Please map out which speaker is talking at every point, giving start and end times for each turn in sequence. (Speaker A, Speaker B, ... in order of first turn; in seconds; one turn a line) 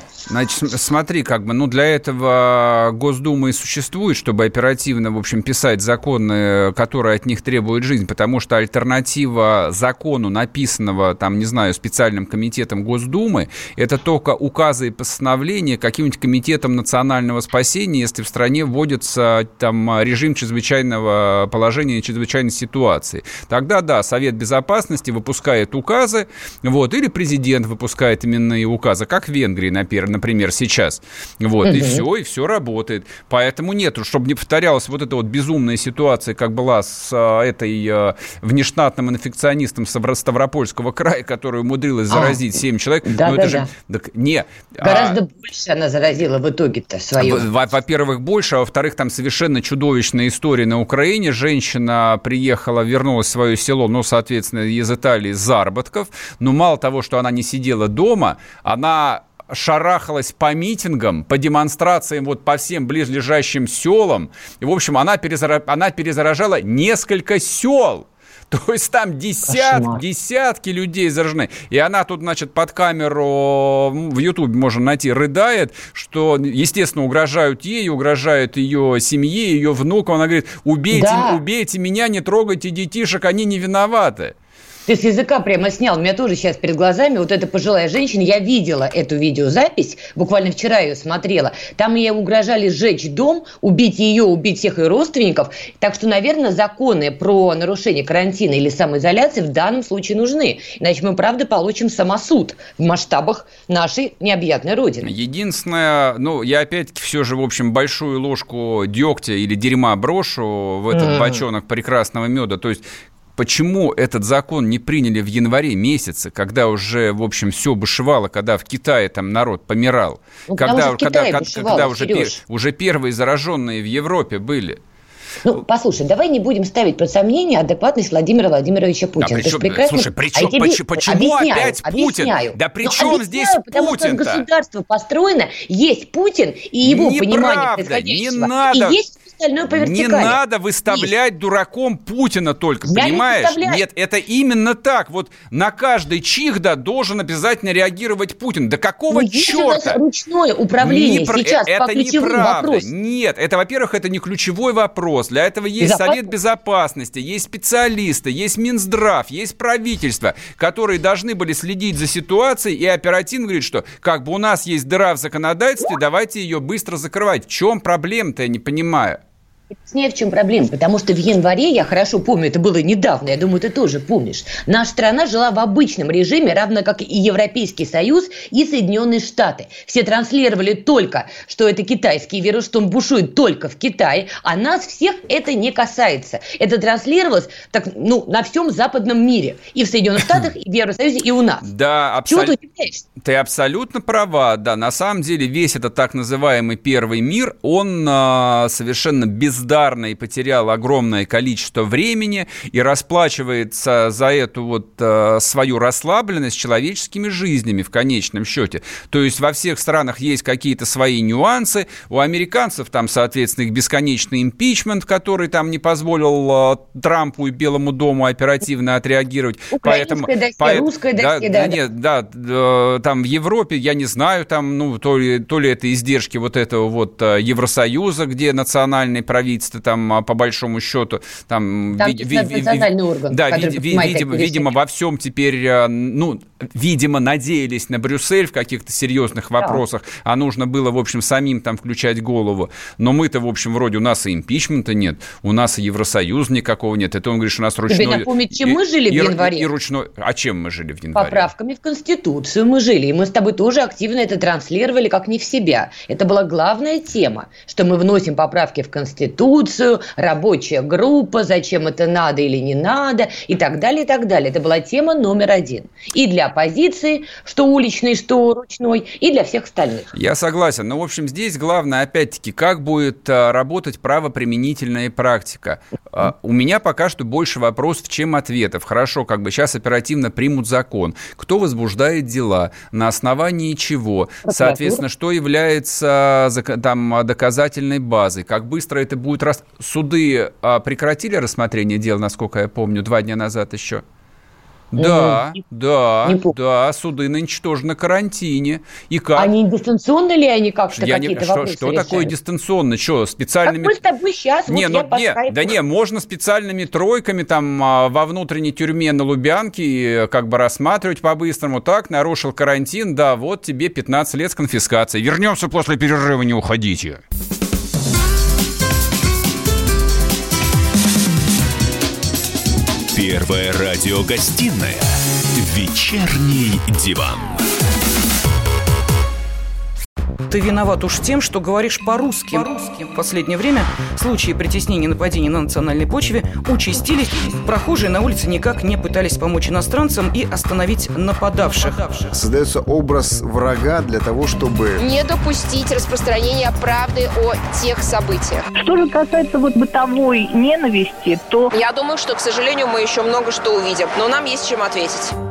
Speaker A: 0.3-45.2
Speaker B: 31.6-32.0
Speaker B: 42.1-42.4
Speaker B: 43.1-43.7
Speaker B: 44.8-47.5
Speaker A: 47.2-84.3
Speaker B: 69.5-70.0
Speaker B: 80.9-81.4
Speaker B: 84.9-105.1
Speaker A: 105.0-112.8
Speaker B: 110.9-111.4
Speaker A: 113.3-124.8
Speaker B: 120.5-122.4
Speaker B: 125.4-141.1
Speaker A: 129.2-134.4
Speaker A: 136.8-139.0
Speaker A: 139.7-150.0
Speaker B: 142.9-143.8
Speaker B: 149.1-152.9
Speaker A: 150.8-169.2
Speaker B: 155.8-156.2
Speaker B: 169.8-191.6
Speaker A: 191.6-192.6
Speaker B: 192.3-193.0
Speaker A: 193.2-251.5
Speaker B: 219.7-221.8
Speaker B: 232.0-234.7
Speaker B: 247.9-249.7
Speaker B: 251.1-270.1
Speaker A: 270.1-294.0
Speaker B: 284.4-285.0
Speaker A: 294.9-299.5
Speaker B: 295.0-295.6
Speaker B: 296.2-296.5
Speaker B: 299.4-302.3
Speaker A: 300.9-304.0
Speaker B: 303.6-305.7
Speaker A: 304.7-317.2
Speaker C: 323.1-327.6
Speaker D: 330.5-342.3
Speaker E: 342.3-345.0
Speaker F: 345.0-348.6
Speaker G: 348.7-351.7
Speaker F: 351.7-355.3